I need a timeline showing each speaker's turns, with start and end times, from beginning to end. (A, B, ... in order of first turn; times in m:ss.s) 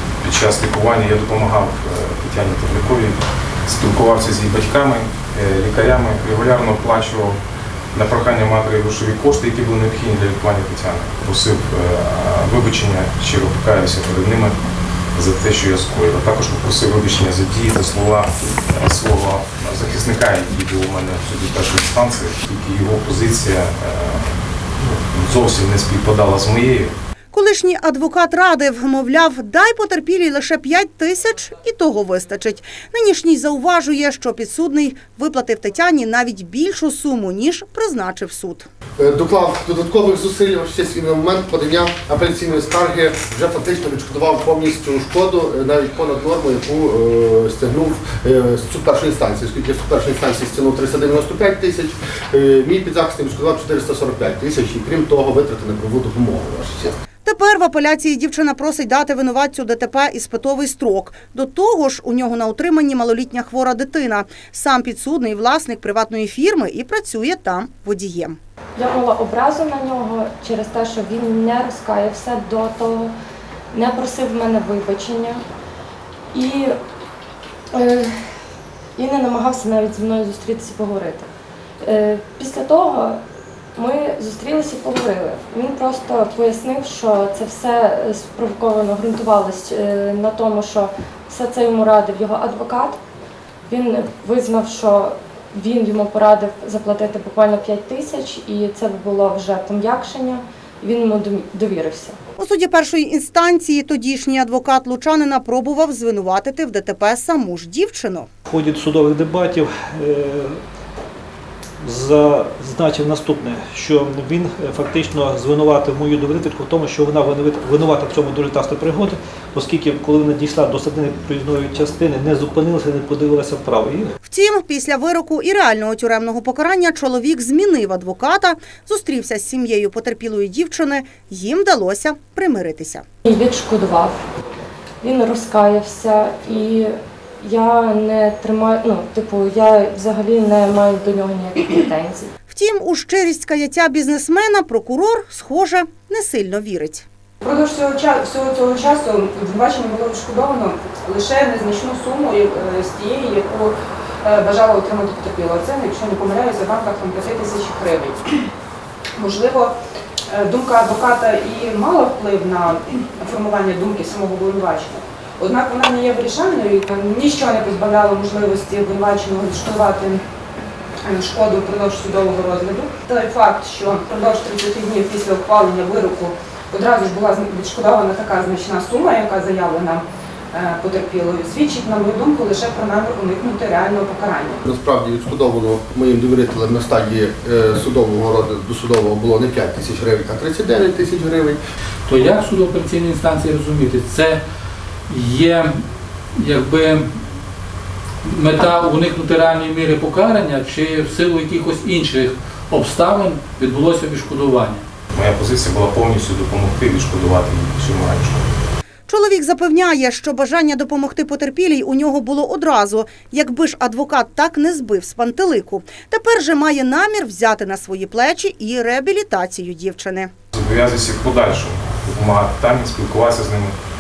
0:00.2-0:07.4 A
0:07.9-0:14.6 A
0:15.2-0:24.3 A
0:24.9-0:26.9 A
0:27.3-0:38.7 B
0:39.0-0:57.0 C
0:57.2-1:08.4 B
1:08.8-1:13.1 D
1:13.7-1:15.4 D
1:16.3-1:16.8 D
1:17.7-1:18.2 D
1:19.0-1:21.3 D
1:21.8-1:23.2 D
1:23.8-1:33.0 D
1:33.7-1:42.2 D
1:42.4-1:48.3 B
1:48.5-1:50.6 E
1:51.8-2:04.1 E
2:04.2-2:13.0 B
2:13.2-2:14.2 D
2:15.0-2:22.3 D
2:22.5-2:27.1 B
2:27.4-2:38.4 F
2:39.2-2:39.8 F
2:40.3-2:50.2 F
2:51.0-3:04.6 F
3:04.6-3:11.6 C
3:12.1-3:14.4 G
3:15.1-3:15.8 G
3:16.4-3:17.1 G
3:18.2-3:24.8 G
3:25.1-3:28.5 A
3:29.1-3:40.3 B
3:40.5-3:43.7 A